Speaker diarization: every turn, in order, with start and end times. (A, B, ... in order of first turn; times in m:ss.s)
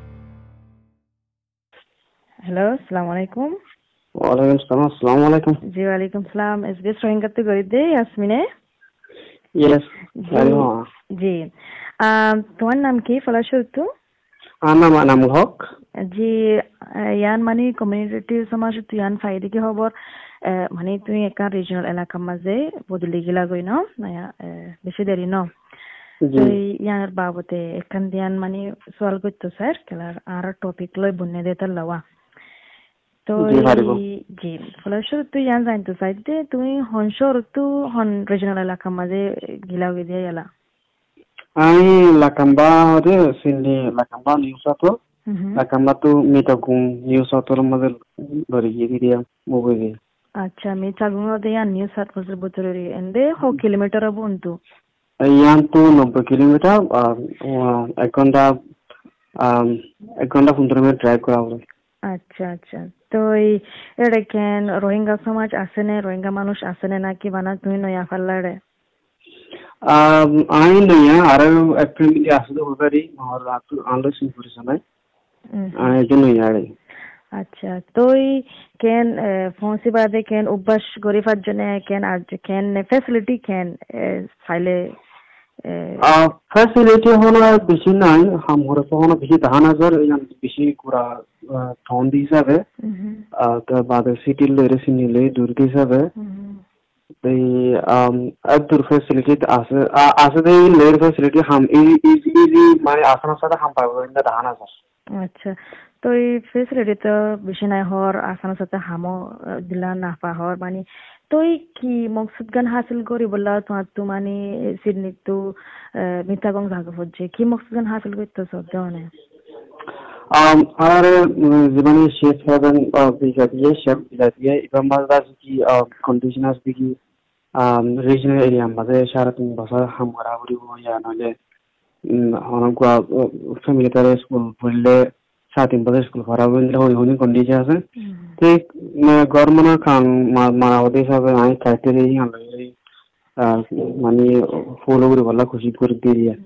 0:02.4-0:03.6 A
0:04.2-0:05.6 B
0:05.7-0:08.4 A
0:09.6-0:10.8 B
0:10.2-0:11.5 A
0:12.0-0:13.9 A
0:14.6-0:15.6 B
0:16.1-0:19.9 A
0:20.4-0:25.5 A
0:26.2-0:26.6 B
0:26.3-0:32.0 A
0:33.3-0:40.5 A
0:33.4-0:34.0 B
0:41.6-0:45.0 B
0:45.3-0:45.6 A
0:45.6-0:50.0 B
0:50.4-0:54.6 A
0:55.2-0:58.6 B
0:59.4-1:01.6 B
1:02.1-1:08.6 A
1:09.9-1:14.8 B
1:15.5-1:15.9 A
1:15.8-1:16.7 B
1:17.4-1:25.0 A
1:25.6-1:26.1 A
1:26.0-1:32.6 B
1:32.8-1:33.2 A
1:33.4-1:36.1 B
1:36.2-1:36.6 A
1:37.2-1:44.7 B
1:45.2-1:55.4 A
1:55.9-1:59.1 A
2:00.3-2:07.0 B
2:07.6-2:11.3 B
2:12.1-2:17.8 B
2:18.0-2:18.4 A
2:18.4-2:22.7 B
2:23.4-2:26.4 B